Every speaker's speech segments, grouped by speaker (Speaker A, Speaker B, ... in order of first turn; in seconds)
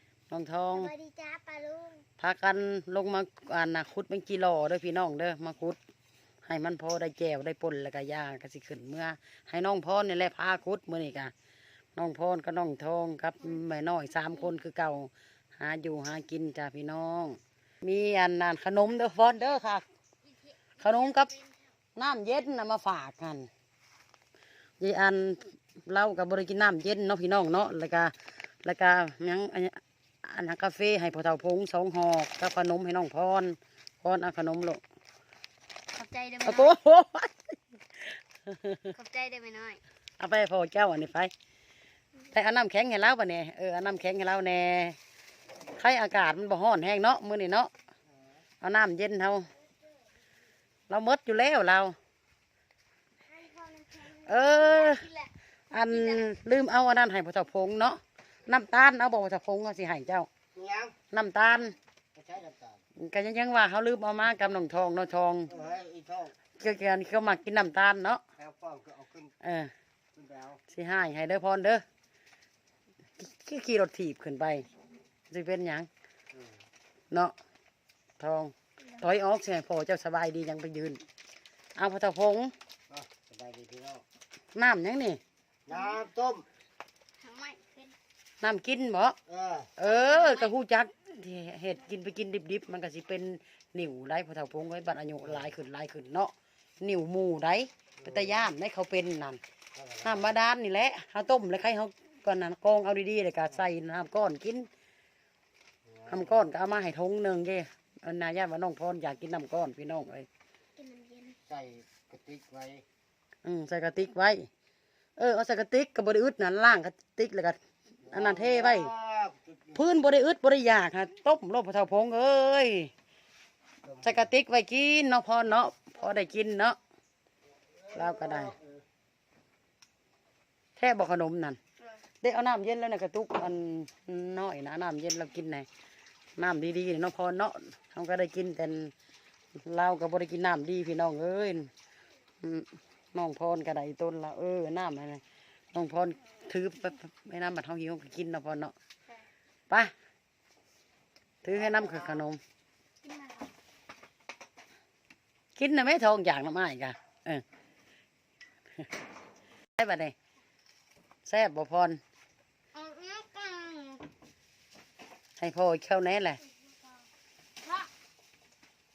Speaker A: 0.3-0.9, 2.2-5.8, 6.4-11.3, 11.9-19.9, 20.8-21.3, 21.9-23.5, 24.8-34.8, 36.5-37.4, 38.0-38.9, 40.2-41.3, 42.3-45.0, 45.7-47.7, 48.6-49.5, 50.9-52.0, 54.0-55.1, 55.7-60.3, 61.1-61.8, 63.0-65.5, 66.6-68.2, 69.4-69.7, 70.7-71.8, 73.2-74.7, 75.3-75.9, 78.2-81.0, 81.8-82.5, 84.5-85.2, 88.4-89.2, 89.8-99.4, 100.0-104.7, 106.1-110.3, 113.4-114.5, 115.2-118.9, 119.7-122.9, 124.0-126.8, 127.9-128.6, 130.8-131.6, 132.2-135.7, 136.4-138.9, 139.6-141.7, 142.4-148.7, 151.4-152.4, 155.6-157.4, 159.8-160.1, 161.2-162.0, 165.4-166.4
Speaker B: 0.7-2.0, 20.2-21.6, 35.9-36.8, 38.9-39.8, 53.3-55.3, 55.9-56.3, 85.7-86.0, 87.2-88.0, 89.8-90.5, 110.8-111.3, 153.0-153.5, 162.7-164.1, 167.6-167.9
Speaker C: 60.5-61.0, 62.1-62.8, 65.5-66.3, 68.4-69.3, 70.2-70.6, 82.9-84.0, 85.7-86.5, 89.3-89.7, 99.8-100.2, 111.5-112.8, 118.1-119.7, 128.0-128.5